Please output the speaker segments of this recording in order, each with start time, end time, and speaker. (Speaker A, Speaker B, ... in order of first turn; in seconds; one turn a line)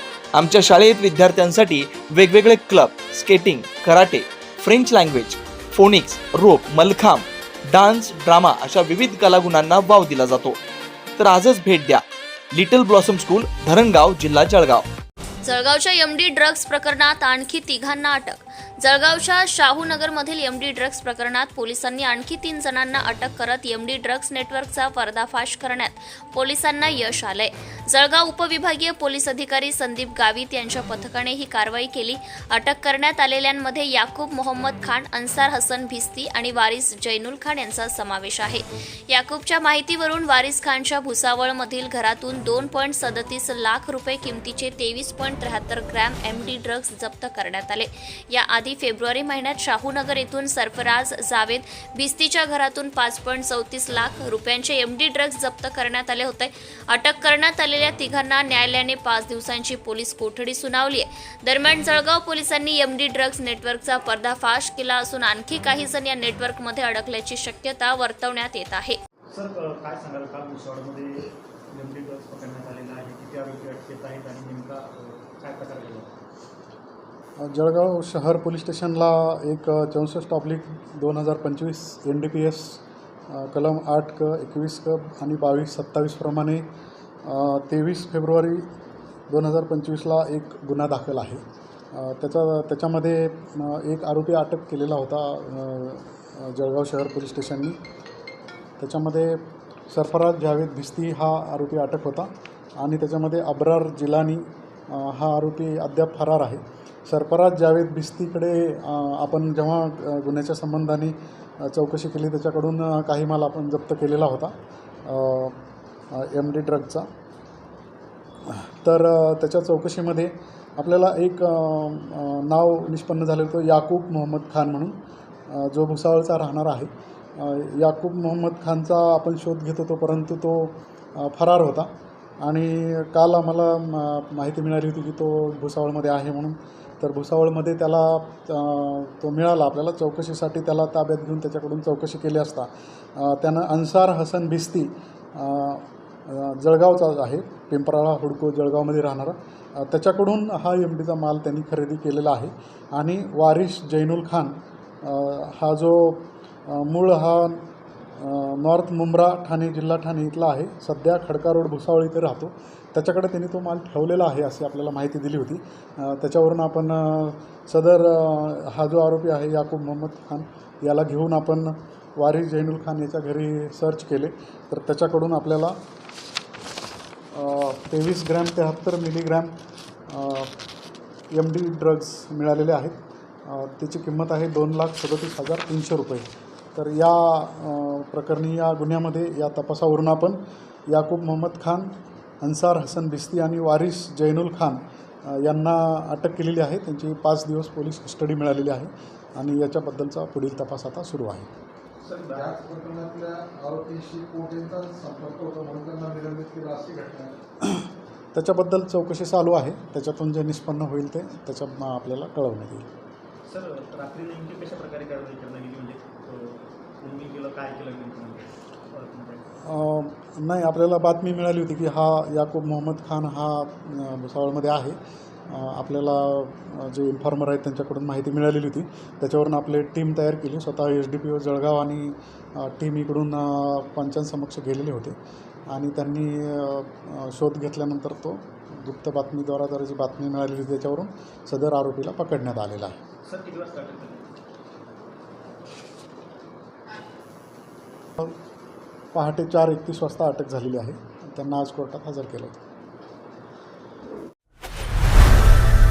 Speaker A: 0.3-10.6
Speaker A: 11.2-14.9
Speaker B: 15.4-69.0
Speaker C: 69.3-76.1
Speaker D: 77.4-86.7
Speaker D: 87.2-88.7
Speaker D: 89.3-91.4
Speaker D: 91.9-97.8
Speaker D: 98.8-114.5
Speaker D: 115.0-115.6
Speaker D: 116.1-117.1
Speaker D: 118.5-125.0
Speaker D: 125.5-131.9
Speaker D: 132.4-157.6
Speaker D: 158.2-175.8
Speaker D: 177.3-179.5
Speaker D: 180.1-180.5
Speaker D: 181.3-190.4
Speaker D: 190.9-191.9
Speaker D: 192.4-201.5
Speaker C: 202.0-202.5
Speaker E: 202.3-207.4
Speaker D: 207.6-212.9
Speaker C: 213.5-219.4
Speaker D: 219.6-235.2
Speaker D: 235.7-243.0
Speaker C: 243.2-244.3
Speaker D: 249.1-252.6